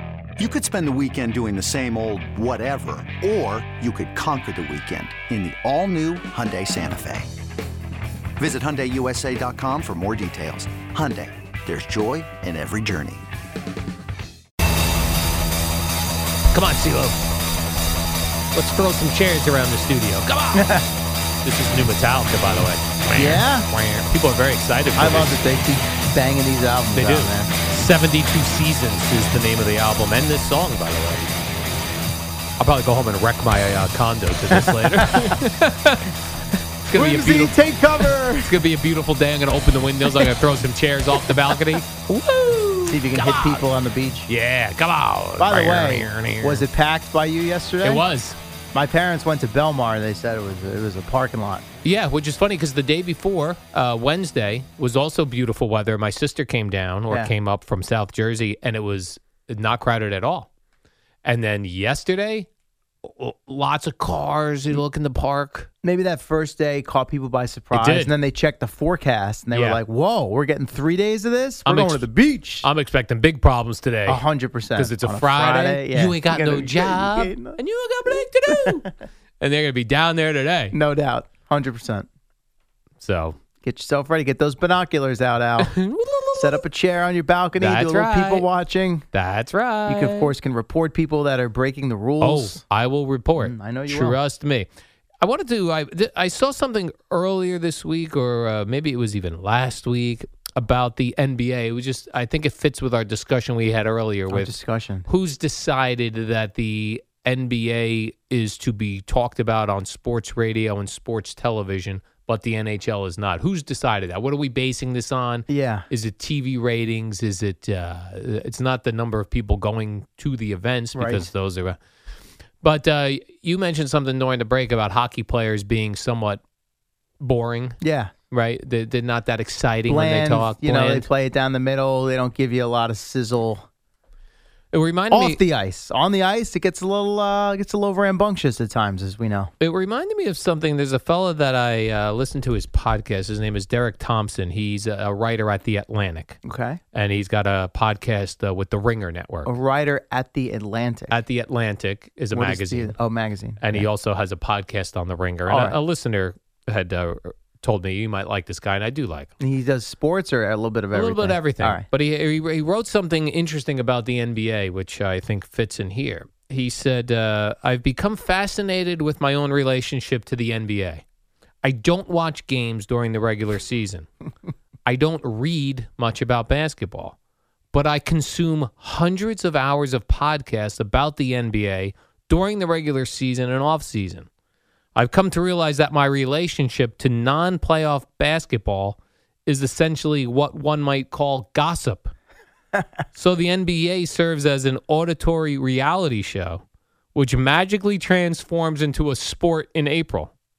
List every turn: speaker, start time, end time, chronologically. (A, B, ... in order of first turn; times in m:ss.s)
0:00.4-0:07.3 A
0:08.4-0:13.3 A
0:16.5-0:17.2 B
0:18.5-0:20.8 B
0:20.6-0:20.8 C
0:21.4-0:25.4 B
0:23.1-0:23.7 C
0:25.0-0:27.5 C
0:26.9-0:31.3 B
0:32.6-0:36.1 B
0:34.5-0:35.3 C
0:36.8-0:43.6 B
0:36.9-0:38.6 C
0:41.2-0:41.6 C
0:42.8-0:44.3 C
0:44.3-0:46.7 B
0:45.4-0:48.0 C
0:47.8-0:48.4 B
0:48.7-0:51.7 C
0:51.8-1:00.5 B
1:01.2-1:02.5 B
1:03.0-1:05.7 B
1:05.8-1:12.7 C
1:07.7-1:08.1 B
1:09.5-1:09.8 B
1:11.6-1:12.1 B
1:12.6-1:14.2 B
1:14.0-1:17.6 C
1:14.8-1:20.8 B
1:20.7-1:22.1 C
1:23.0-1:23.4 B
1:23.6-1:25.8 C
1:25.6-1:26.6 B
1:26.3-1:29.1 C
1:27.6-1:28.5 B
1:29.1-1:30.3 B
1:29.9-1:32.6 C
1:32.2-1:34.7 B
1:33.4-1:34.2 C
1:35.2-1:44.6 B
1:44.3-1:45.1 C
1:45.1-2:01.8 B
1:55.5-1:55.9 C
2:01.0-2:01.3 C
2:02.6-2:06.4 B
2:07.2-2:11.1 B
2:07.8-2:08.1 C
2:09.9-2:13.6 C
2:14.7-2:15.4 B
2:15.1-2:19.5 C
2:19.6-2:26.4 B
2:26.4-2:26.8 C
2:26.9-2:29.5 B
2:29.4-2:31.2 C
2:31.1-2:33.0 B
2:32.3-2:33.9 C
2:33.6-2:39.3 B
2:35.5-2:35.8 C
2:39.4-2:41.9 C
2:40.9-2:51.0 B
2:51.6-2:54.1 B
2:54.9-2:57.2 B
2:57.7-3:04.3 B
3:05.0-3:12.1 B
3:13.1-3:16.6 B
3:17.1-3:20.3 B